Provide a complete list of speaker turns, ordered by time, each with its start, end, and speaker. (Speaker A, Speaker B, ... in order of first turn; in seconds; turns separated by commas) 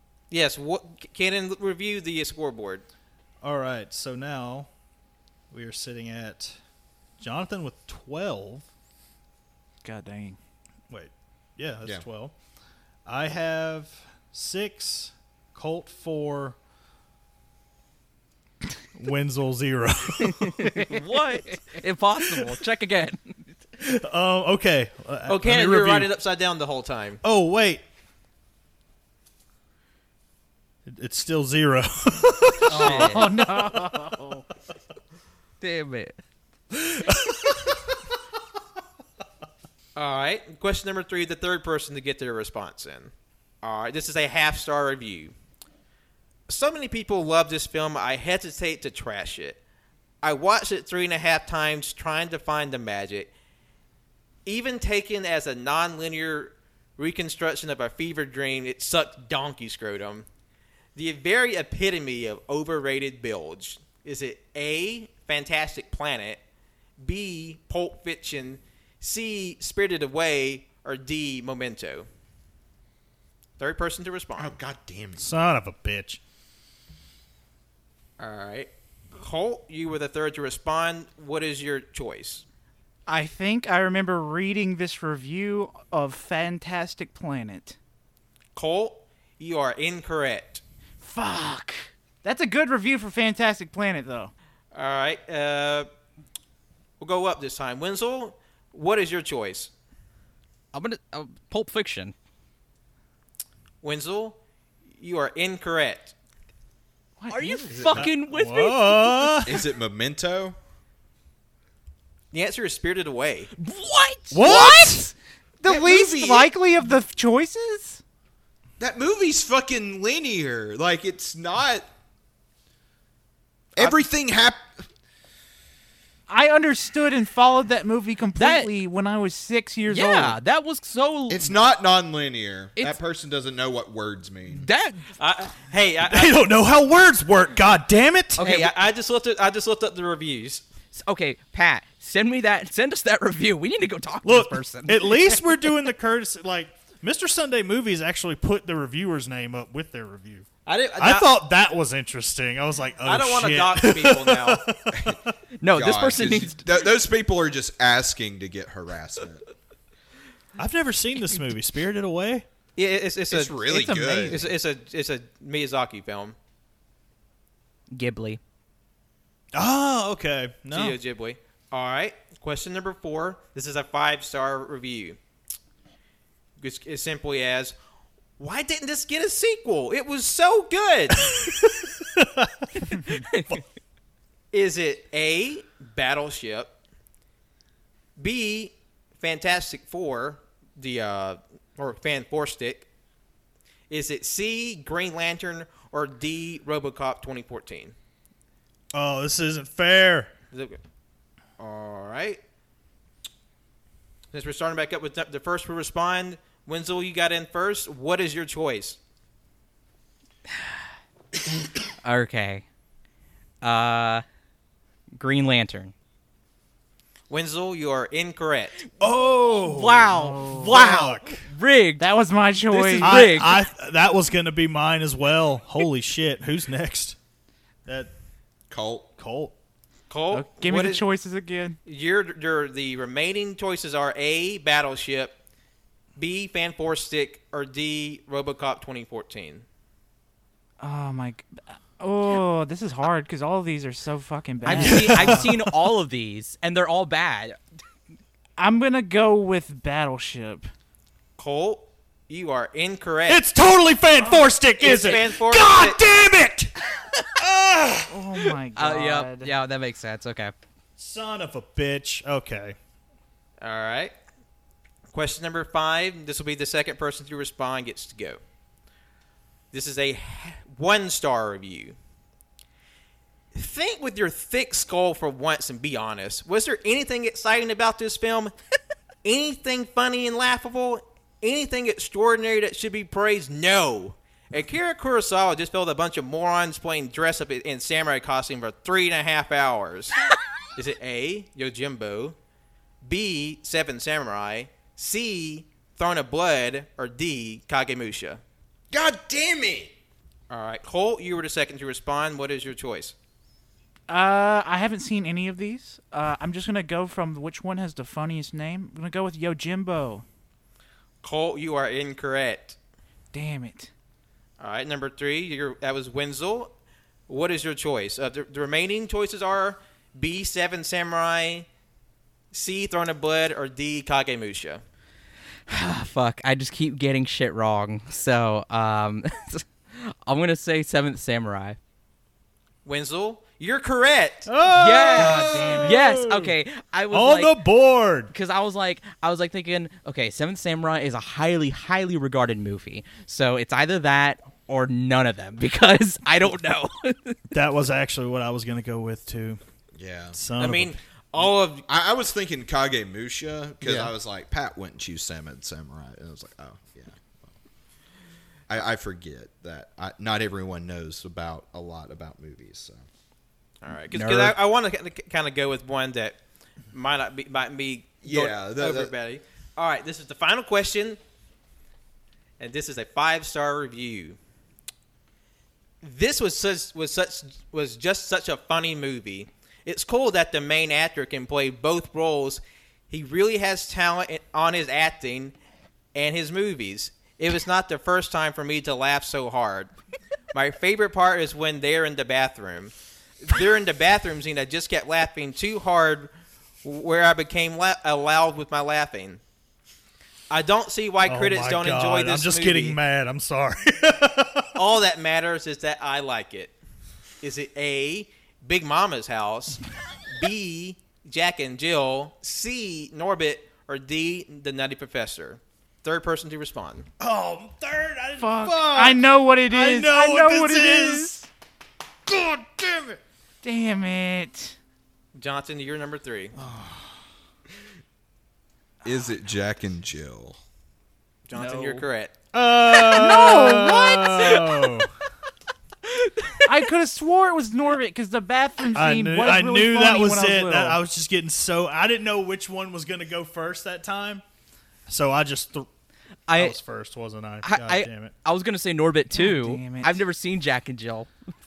Speaker A: 0.3-2.9, Speaker B: 3.4-4.7, Speaker B: 5.5-6.6, Speaker B: 7.2-8.6, Speaker C: 9.8-10.4, Speaker B: 10.9-12.3, Speaker B: 13.1-16.6, Speaker B: 19.0-20.7, Speaker D: 20.4-23.4, Speaker C: 20.7-21.0, Speaker B: 23.8-26.1, Speaker A: 25.3-27.2, Speaker B: 27.2-27.8, Speaker B: 30.9-33.3, Speaker D: 32.7-33.3, Speaker C: 32.7-34.5, Speaker D: 35.6-36.2, Speaker B: 36.7-37.8, Speaker A: 40.0-45.3, Speaker A: 46.5-49.6, Speaker A: 50.2-53.3, Speaker A: 54.5-60.3, Speaker A: 61.0-66.4, Speaker A: 67.0-72.1, Speaker A: 73.6-74.6, Speaker E: 74.4-75.3, Speaker B: 75.2-76.2, Speaker A: 78.2-82.5, Speaker C: 83.1-87.8, Speaker A: 88.6-90.6, Speaker C: 91.0-94.3, Speaker A: 94.7-95.9, Speaker A: 97.0-99.7, Speaker D: 100.7-102.1, Speaker A: 103.8-104.4, Speaker A: 105.0-106.2, Speaker C: 107.2-107.8, Speaker D: 107.3-109.4, Speaker E: 107.7-108.1, Speaker B: 108.0-109.6, Speaker E: 109.4-110.6, Speaker A: 112.3-113.5, Speaker D: 113.6-114.5, Speaker B: 114.3-115.0, Speaker C: 114.4-118.0, Speaker E: 115.7-116.5, Speaker E: 118.8-121.9, Speaker E: 123.8-124.8, Speaker C: 126.3-130.4, Speaker D: 128.4-128.7, Speaker D: 129.9-131.5, Speaker E: 131.3-134.7, Speaker D: 134.5-135.1, Speaker A: 135.2-136.4, Speaker B: 136.1-138.5, Speaker A: 138.4-140.6, Speaker D: 138.4-138.7, Speaker D: 140.9-145.4, Speaker B: 144.2-150.5, Speaker A: 150.7-151.3, Speaker B: 151.0-155.3, Speaker A: 153.1-154.6, Speaker E: 154.9-155.2, Speaker D: 155.6-156.6, Speaker E: 155.7-159.4, Speaker B: 160.6-162.4, Speaker A: 162.8-166.4, Speaker E: 163.3-164.5, Speaker D: 167.9-168.4, Speaker B: 169.5-171.0, Speaker A: 170.7-175.2, Speaker A: 176.6-177.8, Speaker A: 178.4-181.4, Speaker B: 181.2-182.8, Speaker D: 183.3-183.6, Speaker A: 184.5-186.7, Speaker A: 188.2-192.9, Speaker A: 193.9-197.9, Speaker B: 198.9-200.3, Speaker A: 200.5-200.8, Speaker A: 201.6-202.4, Speaker A: 204.3-209.0, Speaker D: 212.0-212.7, Speaker D: 213.6-214.2, Speaker D: 215.2-215.9, Speaker A: 217.3-218.8, Speaker B: 219.0-221.4, Speaker D: 219.6-222.1, Speaker C: 220.2-220.7, Speaker C: 222.0-223.5, Speaker D: 222.7-223.6, Speaker B: 223.0-227.2, Speaker B: 227.9-228.1, Speaker E: 228.7-229.1, Speaker B: 229.2-229.5, Speaker A: 230.1-231.1, Speaker C: 230.3-231.8, Speaker A: 231.8-235.4, Speaker A: 236.2-239.7, Speaker C: 240.8-245.5, Speaker D: 244.7-247.6, Speaker B: 244.7-245.7, Speaker C: 248.6-250.7, Speaker A: 251.4-253.4, Speaker B: 253.3-256.7, Speaker A: 254.8-256.0, Speaker B: 257.4-258.2, Speaker C: 258.1-259.5, Speaker D: 258.8-260.5, Speaker B: 261.0-262.8, Speaker A: 263.6-264.1, Speaker A: 265.1-268.4, Speaker A: 269.7-272.0, Speaker A: 273.5-278.5, Speaker A: 279.2-290.2, Speaker A: 290.8-292.4, Speaker A: 293.0-298.4, Speaker E: 298.9-299.9, Speaker A: 300.5-303.1, Speaker C: 304.1-310.2, Speaker A: 311.2-312.8, Speaker C: 313.3-313.9, Speaker A: 314.6-316.7, Speaker A: 317.3-321.7, Speaker A: 322.5-324.8, Speaker D: 325.7-331.8, Speaker A: 332.9-334.5, Speaker B: 334.5-336.5, Speaker D: 334.7-337.6, Speaker C: 335.1-336.0, Speaker E: 335.1-335.9, Speaker B: 337.1-338.3, Speaker D: 338.3-347.4, Speaker B: 347.5-349.6, Speaker E: 349.9-350.4, Speaker B: 350.3-351.0, Speaker A: 350.6-351.9, Speaker E: 351.9-357.5, Speaker E: 358.7-363.0, Speaker A: 363.8-366.4, Speaker D: 364.1-364.6, Speaker A: 366.9-371.2, Speaker E: 368.2-369.1, Speaker A: 372.6-374.4, Speaker A: 376.0-385.6, Speaker A: 386.1-389.9, Speaker A: 390.5-396.3, Speaker A: 396.8-399.4, Speaker A: 400.5-403.0, Speaker B: 401.3-404.7, Speaker A: 404.8-406.8, Speaker A: 407.4-417.1, Speaker B: 417.2-421.4, Speaker C: 418.4-421.5, Speaker B: 422.3-423.2, Speaker C: 423.6-424.8, Speaker A: 425.4-426.5, Speaker B: 426.6-427.2, Speaker E: 429.0-430.6, Speaker A: 431.5-432.3, Speaker C: 431.6-432.1, Speaker B: 432.5-435.1, Speaker C: 433.1-434.7, Speaker D: 434.5-435.0, Speaker D: 436.1-436.8, Speaker C: 436.6-441.0, Speaker B: 438.9-444.4, Speaker B: 445.1-445.9, Speaker D: 446.5-446.8, Speaker B: 446.5-448.3, Speaker D: 447.6-451.3, Speaker C: 449.4-450.2